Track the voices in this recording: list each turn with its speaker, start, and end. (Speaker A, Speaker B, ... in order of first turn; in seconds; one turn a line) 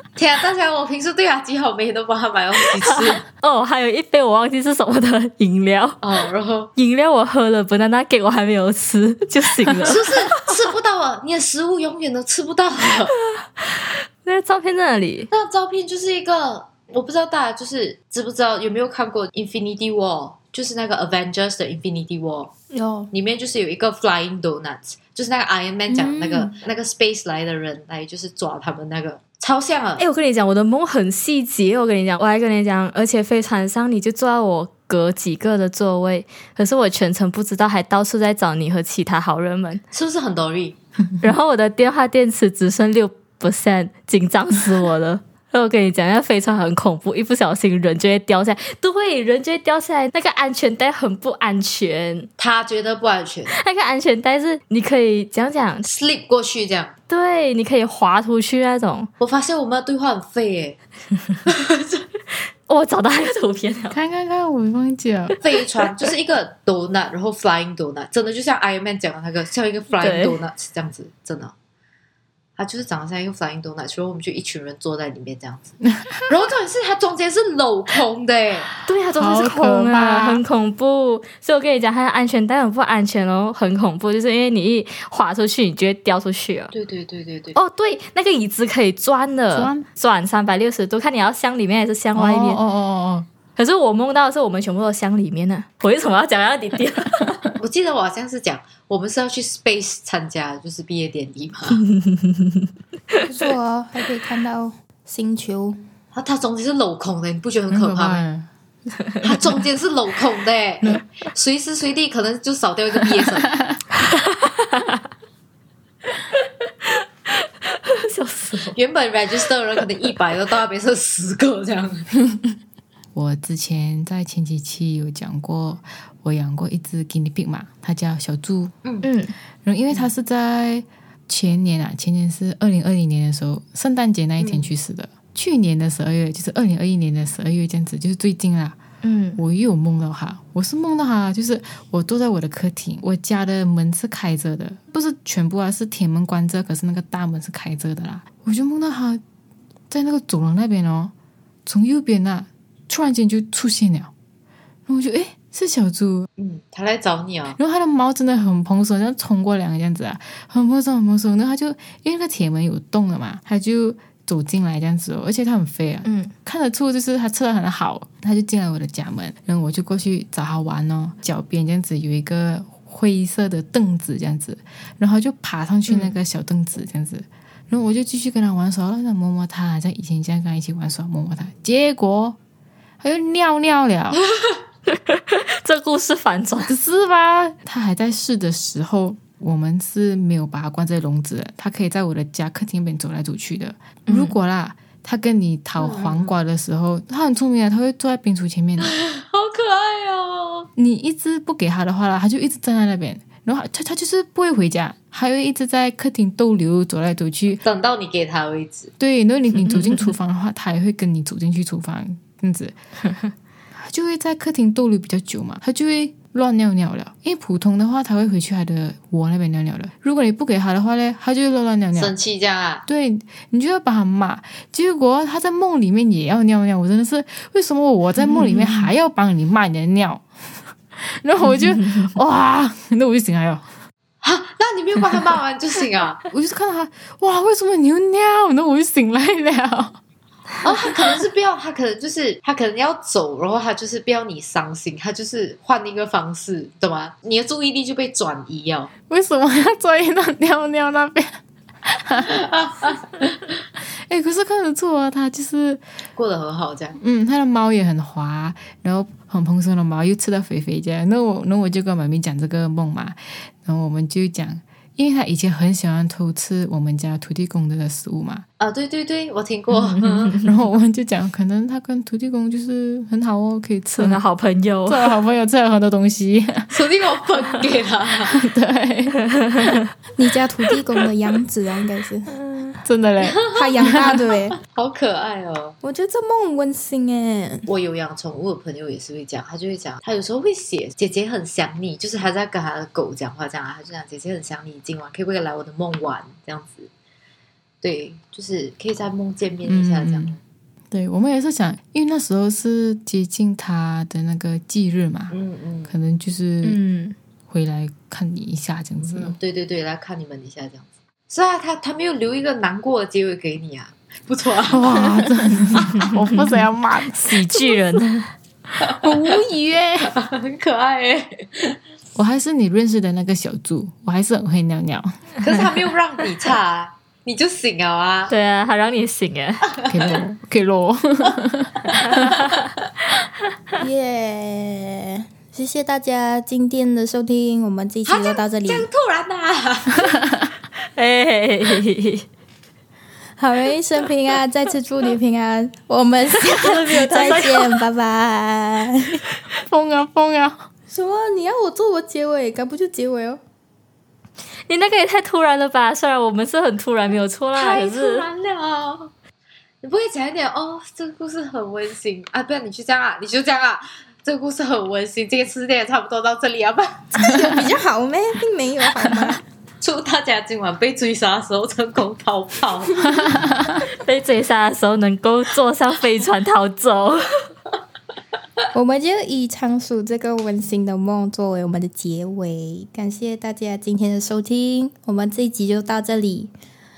Speaker A: 0.1-3.2
Speaker B: 2.8-6.0
Speaker A: 6.0-6.7
Speaker B: 6.8-10.2
Speaker A: 9.8-13.1
Speaker B: 14.2-15.3
Speaker A: 15.3-22.5
Speaker C: 22.7-23.1
Speaker A: 23.1-30.0
Speaker C: 26.0-26.5
Speaker B: 30.0-39.8
Speaker A: 39.9-40.8
Speaker B: 41.2-52.3
Speaker A: 52.4-53.5
Speaker B: 53.5-55.9
Speaker A: 55.9-56.9
Speaker B: 57.1-59.1
Speaker A: 59.2-60.8
Speaker A: 61.5-62.0
Speaker B: 62.7-64.0
Speaker D: 63.9-65.4
Speaker A: 65.4-71.5
Speaker B: 69.9-70.4
Speaker A: 72.6-78.7
Speaker B: 78.8-86.7
Speaker D: 79.2-80.4
Speaker A: 86.7-87.6
Speaker B: 87.5-92.6
Speaker D: 89.5-89.8
Speaker D: 92.1-93.3
Speaker B: 93.5-97.3
Speaker A: 97.6-101.8
Speaker B: 101.7-102.7
Speaker C: 103.2-105.8
Speaker A: 106.1-108.2
Speaker D: 107.7-108.5
Speaker A: 109.2-113.5
Speaker D: 113.4-113.8
Speaker B: 114.1-115.0
Speaker B: 117.7-118.8
Speaker A: 118.7-122.1
Speaker D: 123.1-128.7
Speaker B: 129.0-129.3
Speaker D: 129.6-138.8
Speaker A: 134.4-134.7
Speaker B: 139.0-139.4
Speaker D: 139.3-149.2
Speaker D: 149.9-151.1
Speaker D: 151.7-154.1
Speaker D: 154.9-156.3
Speaker A: 156.4-157.6
Speaker D: 157.6-182.4
Speaker B: 166.0-166.3
Speaker D: 183.0-184.2
Speaker B: 185.1-186.7
Speaker D: 186.7-198.9
Speaker B: 194.1-194.3
Speaker A: 195.8-196.3
Speaker A: 198.8-200.7
Speaker D: 200.8-207.6
Speaker A: 207.6-208.9
Speaker D: 209.0-212.7
Speaker B: 209.6-210.1
Speaker D: 213.7-222.1
Speaker A: 221.9-222.8
Speaker D: 222.9-230.2
Speaker B: 228.2-228.9
Speaker D: 230.9-233.6
Speaker B: 231.4-232.1
Speaker A: 234.2-236.2
Speaker D: 236.3-240.0
Speaker A: 240.6-248.9
Speaker D: 249.1-252.3
Speaker A: 252.3-253.2
Speaker D: 253.8-255.8
Speaker A: 256.1-257.0
Speaker D: 257.0-268.4
Speaker A: 268.6-270.4
Speaker B: 270.0-270.5
Speaker D: 270.4-274.2
Speaker B: 273.9-275.1
Speaker D: 274.9-276.7
Speaker A: 276.7-278.4
Speaker D: 278.3-279.2
Speaker C: 280.1-282.3
Speaker D: 282.8-284.2
Speaker A: 283.2-283.9
Speaker C: 283.5-284.6
Speaker A: 284.6-285.8
Speaker C: 285.8-287.7
Speaker A: 287.7-296.9
Speaker A: 297.8-300.4
Speaker D: 299.6-300.4
Speaker D: 300.9-305.3
Speaker A: 305.3-305.9
Speaker D: 305.9-306.8
Speaker B: 306.6-307.1
Speaker D: 307.5-309.4
Speaker A: 309.0-315.1
Speaker D: 314.7-318.0
Speaker B: 315.9-316.6
Speaker B: 317.3-318.3
Speaker A: 318.8-319.4
Speaker D: 319.0-320.1
Speaker A: 320.0-321.8
Speaker D: 322.1-325.1
Speaker A: 325.4-328.3
Speaker B: 328.3-329.7
Speaker D: 329.9-332.3
Speaker C: 333.8-338.9
Speaker A: 338.1-340.2
Speaker B: 340.9-342.2
Speaker C: 343.4-349.2
Speaker B: 346.4-347.8
Speaker D: 349.6-350.7
Speaker C: 350.9-353.4
Speaker B: 354.7-358.3
Speaker A: 357.5-359.1
Speaker A: 359.8-367.3
Speaker C: 367.1-369.4
Speaker A: 369.8-373.1
Speaker B: 373.9-377.2
Speaker C: 378.7-386.5